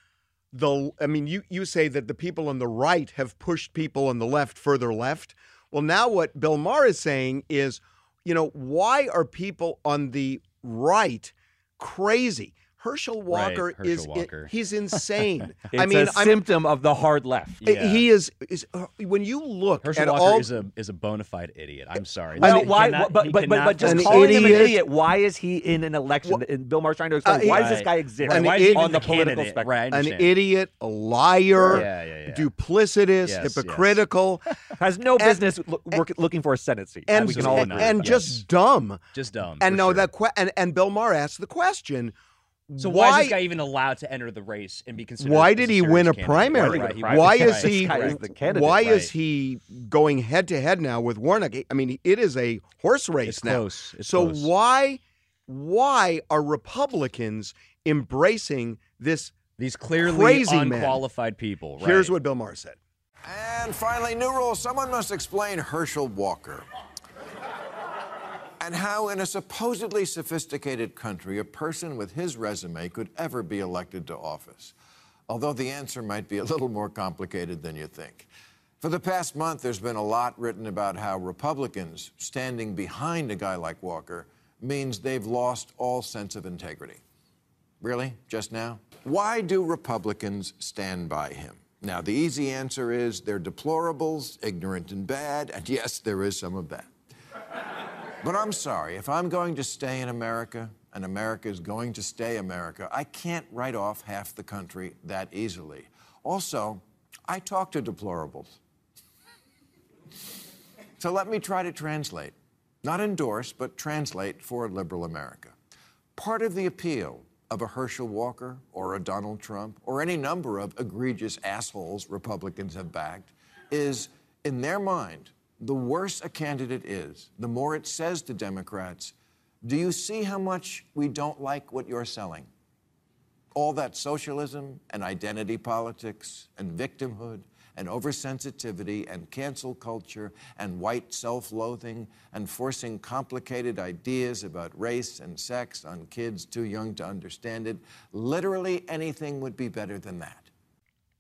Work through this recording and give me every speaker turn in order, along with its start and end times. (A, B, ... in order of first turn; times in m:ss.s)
0:00.5-0:16.4 A
0:13.3-0:14.5 B
0:15.7-0:17.6 C
0:17.6-0:18.0 B
0:17.6-0:20.5 A
0:19.8-0:24.8 B
0:22.4-0:22.7 A
0:22.4-0:29.7 C
0:23.8-0:24.8 A
0:27.2-0:29.1 A
0:27.4-0:30.4 B
0:29.9-0:34.4 A
0:31.6-0:32.5 B
0:33.2-0:34.0 B
0:34.8-0:38.2 C
0:37.1-0:39.0 A
0:37.2-0:38.4 B
0:39.1-0:40.1 B
0:39.6-0:42.1 A
0:42.7-0:43.4 A
0:42.8-0:48.2 B
0:45.2-0:59.4 A
0:46.6-0:49.1 C
0:53.2-0:54.5 B
0:59.6-1:02.2 B
1:00.0-1:01.0 A
1:01.8-1:02.8 A
1:03.2-1:06.6 D
1:08.6-1:14.8 D
1:15.3-1:18.3 D
1:18.8-1:27.0 D
1:27.8-1:36.9 D
1:38.2-1:48.6 D
1:51.0-1:55.6 D
1:56.2-2:12.5 D
2:13.5-2:30.5 D